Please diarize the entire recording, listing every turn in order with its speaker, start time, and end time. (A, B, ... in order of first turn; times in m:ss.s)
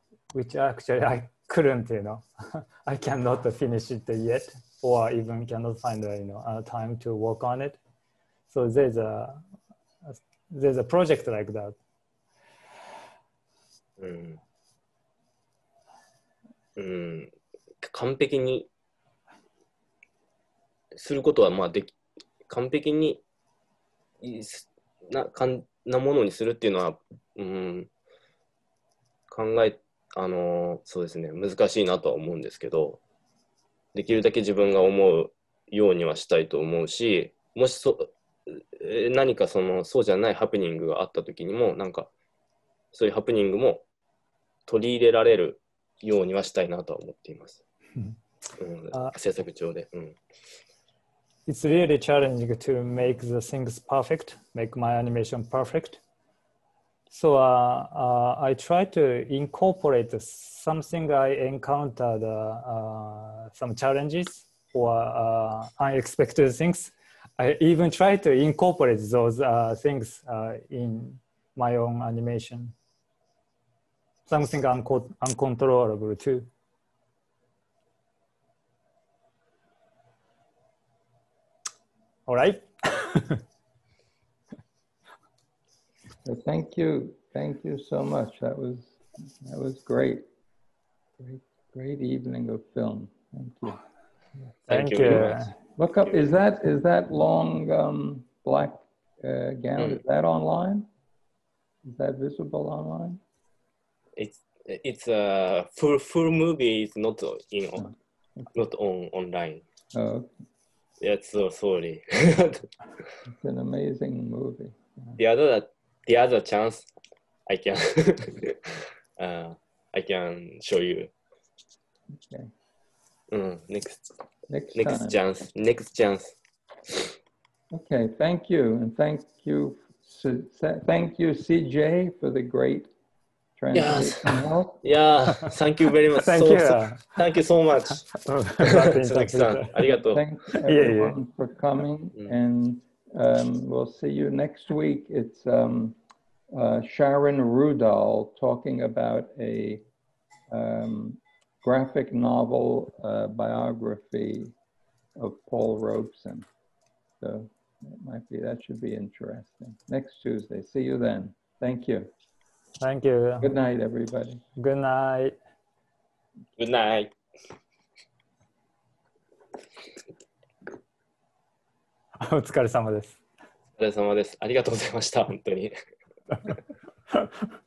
0:00.3-0:07.8 A
0:08.5-0:09.4 A
0:10.0-0:11.8 A
0:14.0-0:14.4 B
0:16.8-0:17.3 B
0:17.8-0:18.7 B
0:20.9-0:22.0 B
0:22.5-0:23.2 B
0:24.2-0:27.9 B
0:29.3-0:33.0 B
0:33.9-0:42.1 B
0:42.9-0:43.8 B
0:44.6-0:47.6 B
0:48.6-0:50.2 B
0:51.5-0:56.0 A
0:57.1-1:12.7 A
1:14.3-1:16.5 A
1:22.3-1:23.4 A
1:26.2-1:30.2 C
1:31.2-1:33.8 C
1:34.7-1:35.4 B
1:34.7-1:35.5 A
1:35.8-1:40.9 C
1:41.8-1:43.2 C
1:44.2-1:47.8 B
1:47.8-1:48.5 C
1:48.5-1:49.6 B
1:49.9-1:50.4 C
1:51.0-1:52.7 B
1:53.3-1:55.2 C
1:55.2-1:56.9 B
1:57.5-2:01.1 B
2:02.2-2:02.5 C
2:03.3-2:04.0 B
2:04.5-2:05.2 C
2:04.7-2:06.4 B
2:07.7-2:12.9 C
2:13.6-2:14.8 C
2:13.7-2:20.2 B
2:16.2-2:17.0 A
2:18.1-2:19.8 A
2:20.0-2:26.0 C
2:20.6-2:21.2 A
2:26.5-2:29.8 C
2:30.5-2:34.5 C
2:35.2-2:36.5 C
2:37.2-2:42.1 C
2:42.8-2:43.5 A
2:43.4-2:44.4 C
2:44.6-2:45.4 A
2:46.6-2:47.1 B
2:52.2-2:53.2 A
2:53.8-2:55.8 B